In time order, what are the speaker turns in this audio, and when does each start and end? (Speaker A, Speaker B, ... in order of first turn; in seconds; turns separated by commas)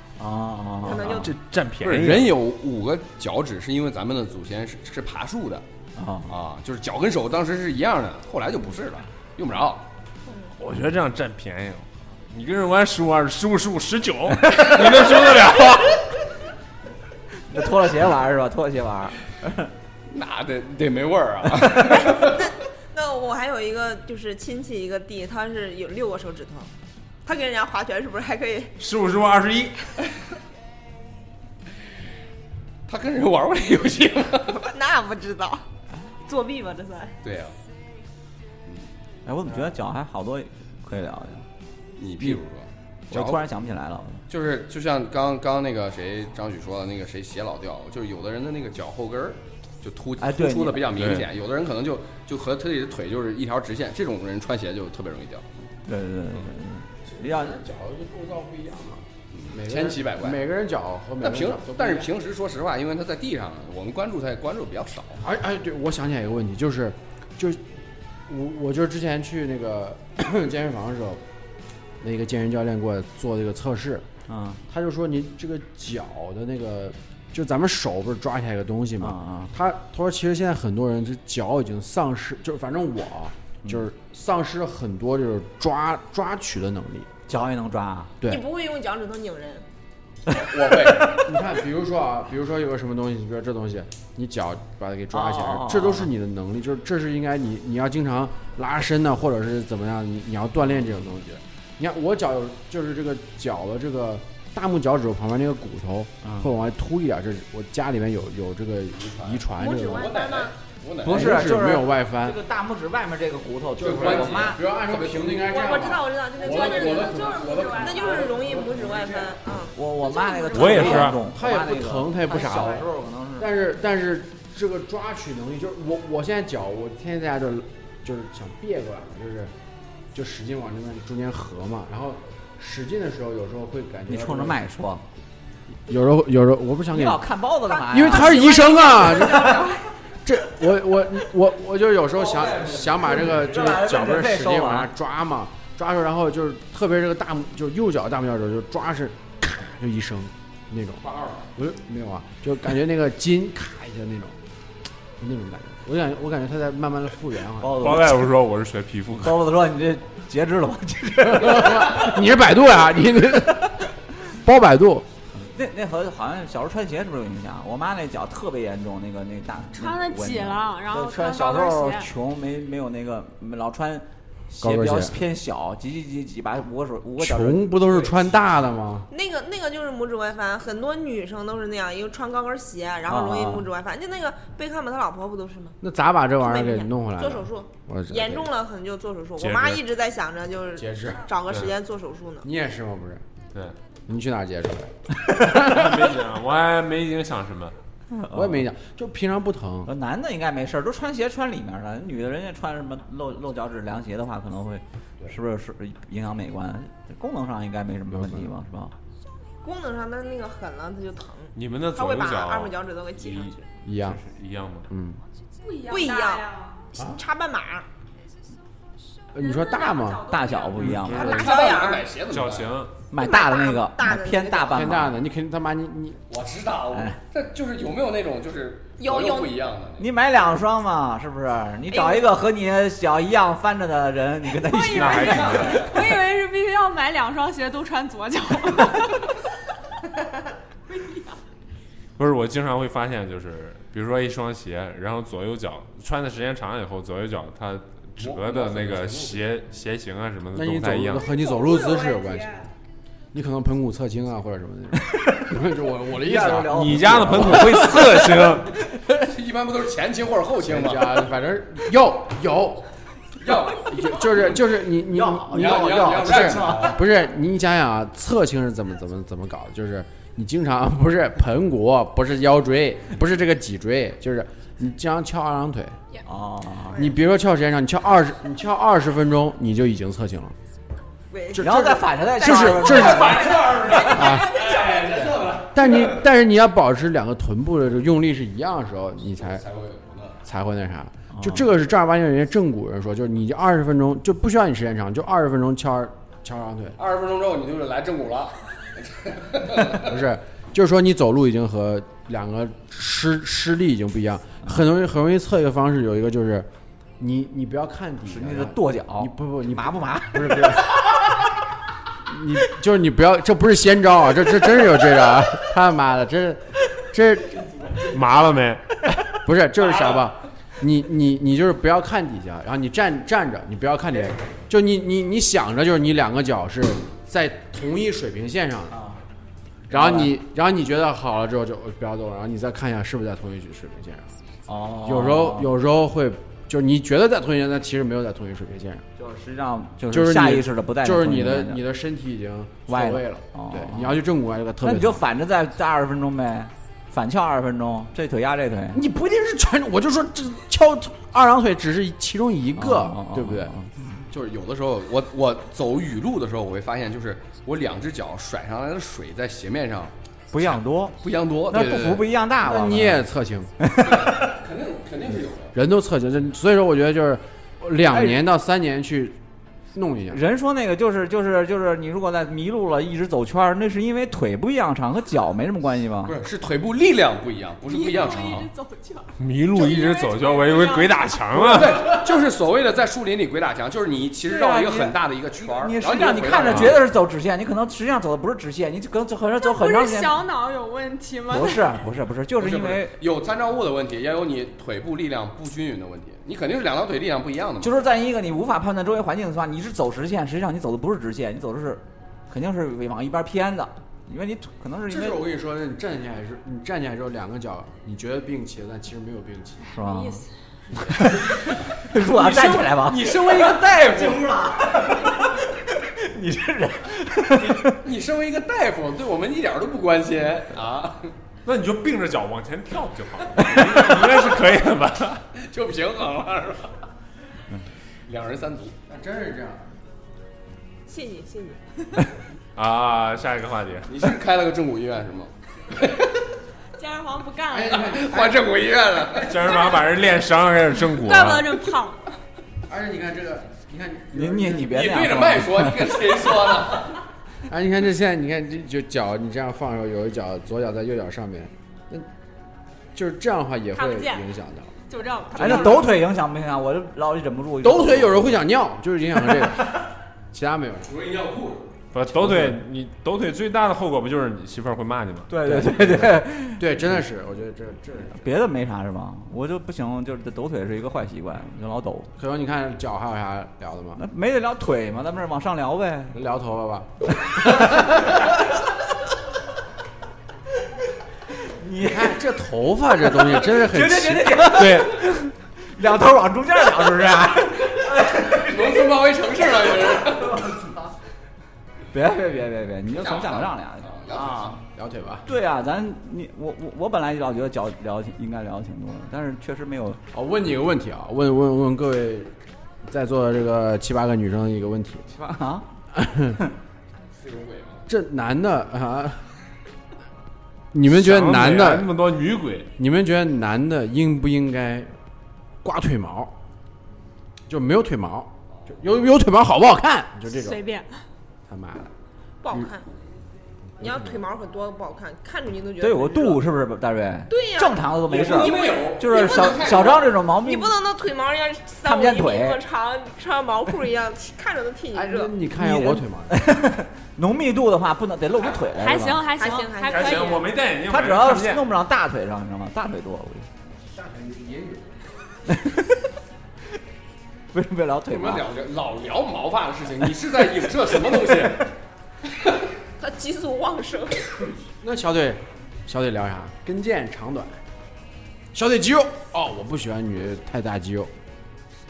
Speaker A: 0.2-1.3, Speaker B: 0.8-1.4, Speaker C: 0.9-2.3, Speaker D: 1.8-5.6, Speaker A: 6.0-6.3, Speaker D: 6.3-9.8, Speaker C: 10.6-16.1, Speaker A: 17.5-19.7, Speaker D: 20.1-22.5, Speaker B: 21.8-26.7, Speaker B: 27.2-28.8, Speaker C: 28.8-29.8, Speaker D: 32.9-34.6, Speaker B: 34.5-35.6, Speaker B: 36.2-37.1, Speaker D: 37.2-37.6, Speaker A: 39.2-41.5, Speaker D: 42.0-43.4, Speaker A: 43.1-44.2, Speaker D: 44.3-55.5, Speaker A: 50.2-51.2, Speaker C: 51.0-51.2, Speaker A: 55.9-57.6, Speaker E: 57.1-62.1, Speaker D: 59.3-60.4, Speaker D: 61.2-65.2, Speaker E: 65.2-71.2, Speaker E: 72.0-74.0, Speaker A: 74.3-74.6, Speaker E: 74.7-87.1, Speaker A: 79.0-79.5, Speaker A: 87.3-88.1, Speaker B: 88.2-89.7, Speaker D: 90.3-91.2, Speaker E: 90.4-110.1, Speaker A: 95.1-96.1, Speaker D: 108.9-111.5, Speaker B: 109.5-110.5, Speaker E: 111.0-112.4, Speaker A: 111.1-114.6, Speaker E: 113.8-119.4, Speaker D: 113.8-118.7, Speaker B: 115.5-121.1, Speaker F: 116.4-118.2, Speaker A: 119.7-123.5, Speaker C: 120.5-121.2, Speaker E: 121.1-129.5, Speaker E: 130.1-134.6, Speaker A: 134.1-135.0, Speaker E: 135.8-137.2, Speaker A: 136.9-139.6, Speaker E: 137.9-139.7, Speaker F: 138.1-139.6, Speaker B: 138.4-139.8, Speaker E: 140.2-154.4, Speaker D: 142.3-142.8, Speaker A: 142.6-144.9, Speaker D: 151.0-151.5, Speaker E: 155.2-157.8, Speaker A: 157.6-158.3, Speaker C: 157.8-159.4, Speaker A: 159.2-162.1, Speaker E: 161.3-165.1, Speaker A: 165.3-178.1, Speaker F: 169.7-172.1, Speaker E: 174.6-175.2, Speaker E: 177.2-179.1, Speaker B: 179.1-185.8, Speaker A: 183.1-183.7, Speaker E: 185.8-188.5, Speaker B: 186.4-192.5, Speaker C: 189.4-189.8, Speaker E: 190.8-191.3, Speaker C: 191.5-191.7, Speaker E: 192.4-193.2, Speaker E: 194.1-196.0, Speaker C: 195.5-197.8, Speaker A: 198.1-198.6, Speaker E: 198.3-199.9, Speaker A: 199.8-208.9, Speaker E: 208.1-208.5, Speaker B: 209.6-213.6, Speaker C: 211.5-214.9, Speaker E: 213.8-214.2, Speaker E: 214.9-215.2, Speaker F: 215.6-216.8, Speaker B: 215.9-217.8, Speaker E: 219.3-220.2, Speaker F: 219.3-221.7, Speaker A: 220.3-221.4, Speaker E: 220.8-221.5, Speaker B: 221.1-222.1, Speaker D: 221.1-222.8, Speaker C: 222.3-222.9, Speaker A: 223.1-225.2, Speaker B: 223.2-224.9, Speaker E: 224.7-226.2, Speaker D: 226.3-230.1, Speaker B: 229.0-229.6, Speaker A: 230.0-235.8, Speaker B: 231.9-232.3, Speaker F: 234.7-239.4, Speaker C: 234.9-235.9, Speaker F: 240.9-241.4, Speaker C: 242.2-251.3, Speaker D: 248.2-249.4, Speaker E: 250.5-252.6, Speaker B: 251.4-252.4, Speaker E: 253.3-257.7, Speaker A: 255.1-255.5, Speaker A: 256.1-258.2, Speaker C: 256.7-258.7, Speaker D: 259.1-261.3, Speaker E: 260.6-262.9, Speaker D: 263.4-264.6, Speaker E: 263.6-276.0, Speaker A: 265.1-267.0, Speaker D: 265.5-267.0, Speaker A: 276.2-277.0, Speaker E: 276.9-280.6, Speaker B: 281.3-284.7, Speaker E: 281.5-284.6, Speaker A: 281.6-283.6, Speaker D: 282.8-286.3, Speaker E: 285.6-289.6, Speaker D: 289.4-290.4, Speaker E: 290.4-297.0, Speaker A: 291.3-291.6, Speaker D: 297.0-300.1, Speaker E: 299.9-306.7, Speaker E: 307.2-311.1, Speaker A: 308.3-311.1, Speaker E: 312.2-317.7, Speaker C: 318.0-319.4, Speaker E: 319.4-329.0, Speaker D: 319.9-320.2, Speaker A: 328.9-329.2, Speaker A: 329.9-330.3, Speaker E: 329.9-334.3, Speaker A: 334.7-335.7, Speaker E: 335.0-339.0, Speaker A: 339.2-341.8, Speaker E: 340.1-345.2, Speaker A: 342.9-344.2, Speaker A: 344.8-349.0, Speaker E: 348.9-353.8, Speaker A: 352.8-354.2, Speaker D: 354.3-362.3, Speaker A: 360.5-361.1, Speaker A: 361.7-363.2, Speaker E: 362.6-363.7, Speaker A: 363.8-364.5, Speaker D: 364.0-365.7, Speaker E: 365.7-369.4, Speaker A: 368.1-368.4, Speaker E: 369.9-370.4, Speaker A: 370.3-376.3, Speaker D: 376.2-378.7, Speaker F: 377.9-381.6, Speaker C: 379.4-382.1, Speaker D: 381.6-387.0, Speaker A: 384.4-390.4, Speaker C: 386.7-386.9, Speaker F: 389.6-391.9, Speaker A: 391.5-393.1, Speaker D: 392.6-397.9, Speaker A: 397.8-405.4, Speaker E: 405.1-409.9, Speaker F: 409.8-410.5, Speaker A: 409.9-410.4, Speaker A: 411.1-418.0, Speaker D: 412.1-414.7, Speaker D: 417.6-421.3, Speaker C: 421.6-425.4, Speaker D: 423.6-424.5, Speaker D: 425.5-427.1, Speaker D: 428.3-429.0, Speaker E: 429.1-429.9, Speaker B: 431.1-431.8, Speaker C: 432.8-434.1, Speaker D: 434.1-436.4, Speaker F: 436.9-438.1, Speaker E: 437.7-438.7, Speaker D: 437.9-439.6, Speaker C: 439.4-441.8, Speaker F: 439.8-440.0, Speaker F: 441.1-442.4, Speaker E: 442.9-445.0, Speaker A: 444.3-446.1, Speaker D: 444.8-447.2, Speaker E: 447.7-452.3, Speaker E: 453.1-454.9, Speaker F: 453.9-454.5, Speaker F: 455.1-456.0, Speaker E: 455.5-456.1, Speaker A: 455.5-458.6, Speaker E: 457.8-461.1, Speaker D: 461.1-462.0, Speaker C: 462.1-465.5, Speaker E: 462.3-462.8, Speaker A: 465.5-467.1, Speaker E: 465.6-468.4, Speaker A: 468.4-472.3, Speaker E: 472.4-474.2, Speaker A: 474.2-476.4, Speaker E: 476.3-478.4, Speaker A: 477.5-478.3, Speaker A: 481.6-482.4, Speaker E: 482.0-485.1, Speaker A: 483.4-488.7, Speaker D: 488.1-490.7, Speaker A: 492.1-494.8, Speaker D: 493.1-494.8, Speaker E: 494.9-495.4, Speaker A: 495.4-500.2, Speaker E: 500.3-502.5, Speaker E: 503.0-505.2, Speaker A: 505.3-505.9, Speaker E: 506.1-506.6, Speaker D: 507.4-508.0, Speaker E: 508.1-509.5, Speaker E: 510.9-512.1, Speaker C: 511.1-512.9, Speaker E: 513.0-515.1, Speaker E: 515.8-516.5, Speaker E: 517.7-520.8, Speaker F: 520.5-521.2, Speaker E: 521.7-522.1, Speaker B: 522.6-523.1, Speaker E: 524.0-524.4, Speaker B: 524.0-526.6, Speaker A: 526.0-530.9, Speaker B: 527.5-530.0, Speaker D: 528.3-530.3, Speaker B: 530.6-535.5, Speaker A: 532.0-532.8, Speaker E: 535.1-536.6, Speaker A: 535.8-539.4, Speaker F: 539.0-540.7, Speaker B: 539.6-540.7, Speaker C: 540.0-541.9, Speaker A: 541.1-543.7, Speaker E: 544.0-545.2, Speaker A: 545.7-546.2, Speaker A: 547.7-548.6, Speaker D: 548.3-551.9, Speaker B: 553.2-554.7, Speaker E: 555.0-557.8, Speaker E: 558.7-561.3